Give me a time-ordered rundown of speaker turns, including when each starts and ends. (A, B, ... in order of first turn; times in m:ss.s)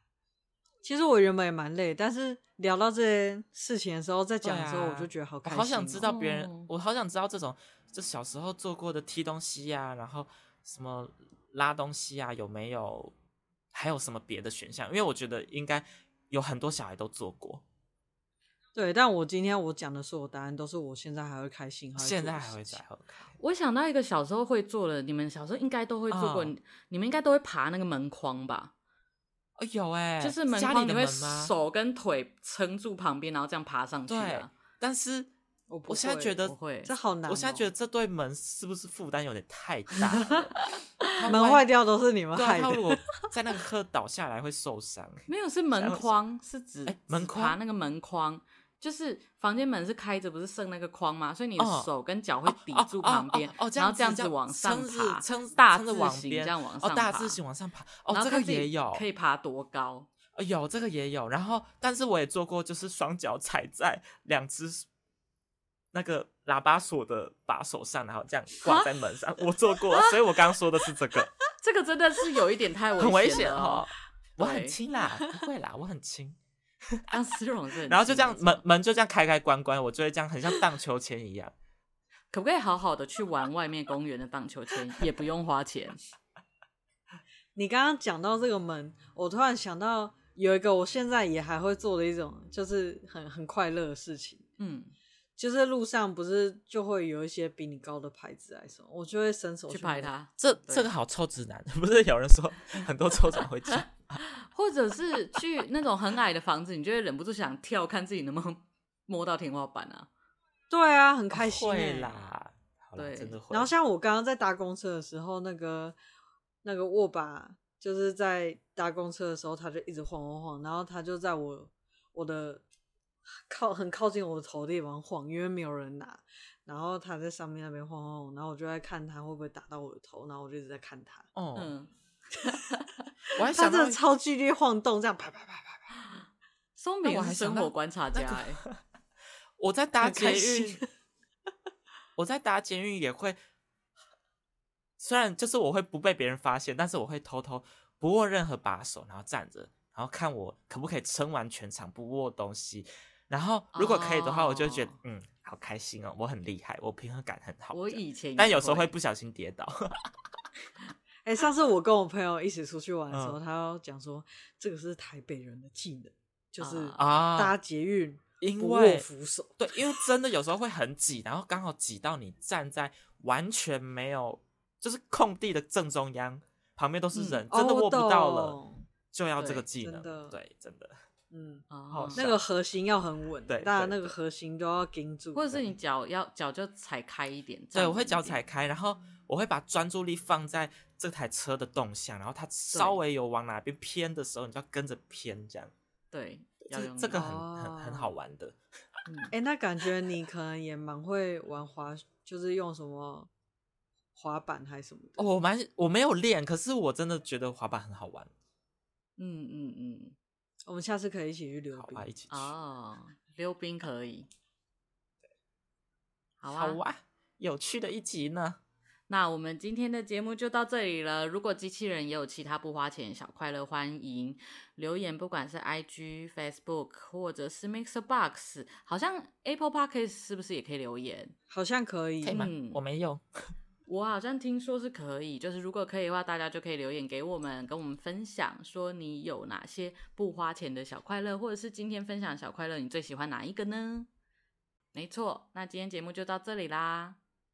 0:00.8-0:06.1 A
0:04.4-0:13.1 B
0:06.0-0:06.7 C
0:13.7-0:17.6 B
0:18.8-0:22.8 A
0:22.0-0:23.4 B
0:23.4-0:28.7 C
0:26.1-0:26.6 B
0:29.6-0:31.5 B
0:30.2-0:34.5 C
0:34.1-0:35.3 B
0:35.7-0:37.7 A
0:35.9-0:36.6 B
0:36.4-0:36.9 C
0:37.3-0:41.7 B
0:40.1-0:41.2 C
0:41.3-0:43.0 A
0:42.3-0:46.1 B
0:45.3-0:57.4 C
0:46.9-0:47.6 B
0:51.6-0:51.9 B
0:52.5-0:59.0 B
0:58.1-1:00.1 C
1:00.4-1:04.9 B
1:05.9-1:11.3 B
1:08.6-1:08.9 C
1:09.9-1:10.2 C
1:11.6-1:14.8 C
1:13.0-1:17.1 B
1:17.1-1:18.6 C
1:17.9-1:21.5 B
1:22.3-1:26.0 C
1:27.6-1:34.5 A
1:34.6-1:34.9 C
1:35.4-1:40.1 A
1:39.7-1:40.9 C
1:40.4-1:44.2 B
1:43.7-1:50.1 C
1:50.7-1:52.2 A
1:51.3-1:53.7 B
1:53.0-1:53.4 C
1:53.5-1:56.0 A
1:56.6-2:02.6 A
2:03.4-2:11.3 A
2:11.4-2:11.7 B
2:11.6-2:13.0 C
2:13.3-2:15.9 A
2:13.4-2:14.0 B
2:16.8-2:18.6 C
2:17.0-2:18.8 B
2:19.6-2:20.8 B
2:20.0-2:20.9 A
2:22.2-2:23.4 B
2:25.0-2:40.1 B
2:33.7-2:35.0 C
2:37.7-2:38.9 C
2:41.2-2:50.0 A
2:43.1-2:43.4 B
2:46.6-2:47.0 C
2:47.0-2:47.6 B
2:48.4-2:49.1 B
2:49.6-2:58.6 B
2:57.1-2:57.4 C
2:57.5-2:58.8 A
2:59.1-3:01.0 B
2:59.4-2:59.6 C
2:59.8-3:00.4 A
3:01.3-3:05.6 A
3:01.7-3:02.2 C
3:01.9-3:02.4 B
3:03.5-3:04.2 B
3:05.4-3:08.4 C
3:07.7-3:15.7 B
3:12.7-3:13.0 C
3:16.1-3:17.2 C
3:16.7-3:18.6 B
3:17.1-3:18.1 A
3:19.1-3:19.3 C
3:19.3-3:23.3 A
3:24.2-3:25.2 A
3:25.2-3:28.3 B
3:29.2-3:30.2 C
3:30.7-3:32.1 A
3:31.8-3:32.5 B
3:32.3-3:34.3 C
3:36.4-3:36.8 C
3:36.5-3:38.6 B
3:39.1-3:51.3 C
3:51.5-3:52.4 A
3:52.2-3:53.2 B
3:52.3-3:52.8 C
3:53.9-4:04.1 C
4:04.9-4:07.2 C